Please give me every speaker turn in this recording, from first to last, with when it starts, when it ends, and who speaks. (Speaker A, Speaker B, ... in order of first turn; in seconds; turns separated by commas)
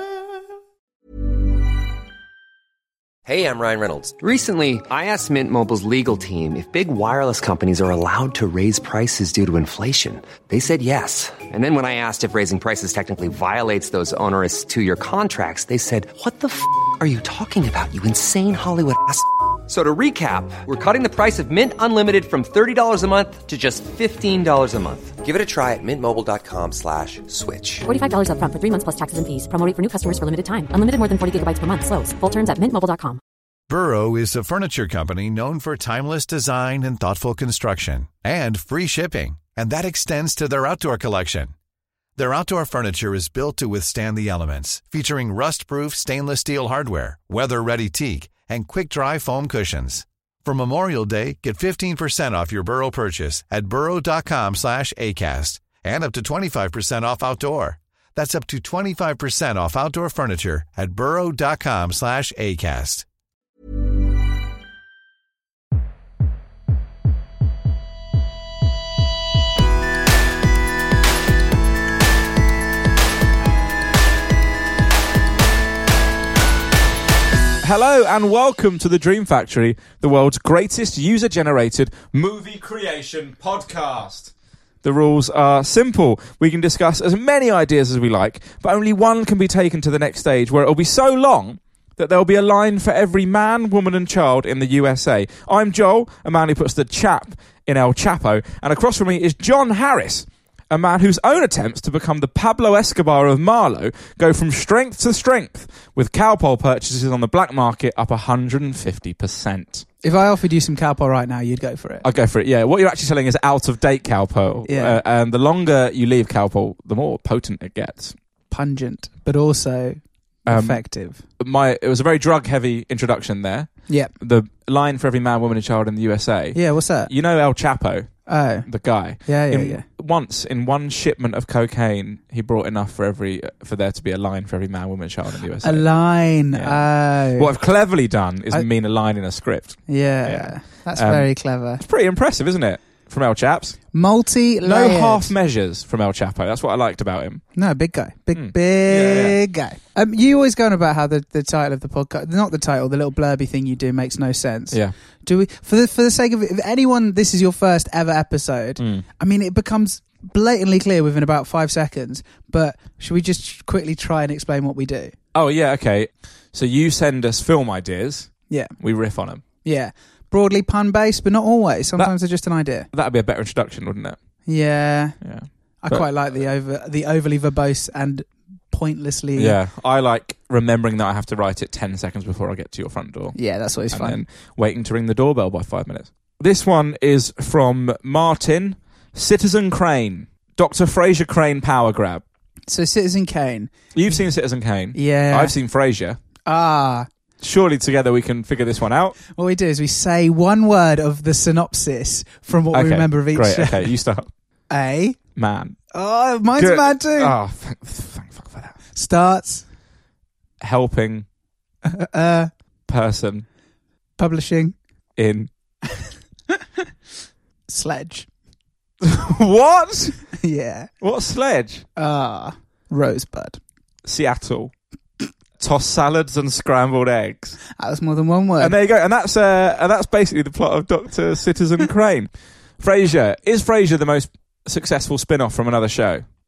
Speaker A: 3.2-27.9, Speaker B: 27.8-33.2, Speaker C: 33.7-41.5, Speaker C: 42.1-63.0, Speaker D: 77.6-84.3, Speaker D: 84.8-109.8, Speaker E: 110.0-112.0, Speaker D: 112.0-118.1, Speaker E: 114.7-115.0, Speaker E: 118.5-121.2, Speaker D: 120.5-135.9, Speaker E: 126.5-127.1, Speaker E: 128.3-128.7, Speaker E: 129.2-129.8, Speaker E: 135.6-137.5, Speaker D: 136.5-143.8, Speaker E: 139.9-141.8, Speaker E: 143.9-145.3, Speaker D: 144.6-147.4, Speaker E: 147.6-165.1, Speaker D: 148.3-149.4, Speaker D: 158.8-159.1, Speaker D: 165.3-169.4, Speaker E: 169.6-172.9, Speaker D: 172.9-174.2, Speaker E: 174.5-175.2, Speaker D: 175.2-176.1, Speaker E: 175.8-179.6, Speaker D: 179.4-183.4, Speaker E: 183.3-184.2, Speaker D: 183.9-192.2, Speaker E: 192.7-194.2, Speaker D: 193.9-196.2, Speaker E: 194.9-195.5, Speaker E: 196.4-197.1, Speaker D: 197.4-199.2, Speaker E: 199.3-203.9, Speaker D: 202.7-204.3, Speaker E: 204.7-205.2, Speaker D: 205.3-205.8, Speaker E: 205.9-207.3, Speaker D: 206.6-208.8, Speaker E: 208.9-209.6, Speaker D: 210.6-211.2, Speaker E: 211.8-212.5, Speaker D: 212.9-213.4, Speaker E: 214.2-214.8, Speaker D: 215.2-215.5, Speaker E: 217.7-218.3, Speaker D: 219.0-220.2, Speaker E: 220.4-220.9, Speaker D: 221.0-221.8, Speaker E: 222.0-223.6, Speaker D: 224.0-224.7, Speaker D: 225.6-227.6, Speaker E: 227.8-228.7, Speaker D: 228.6-236.2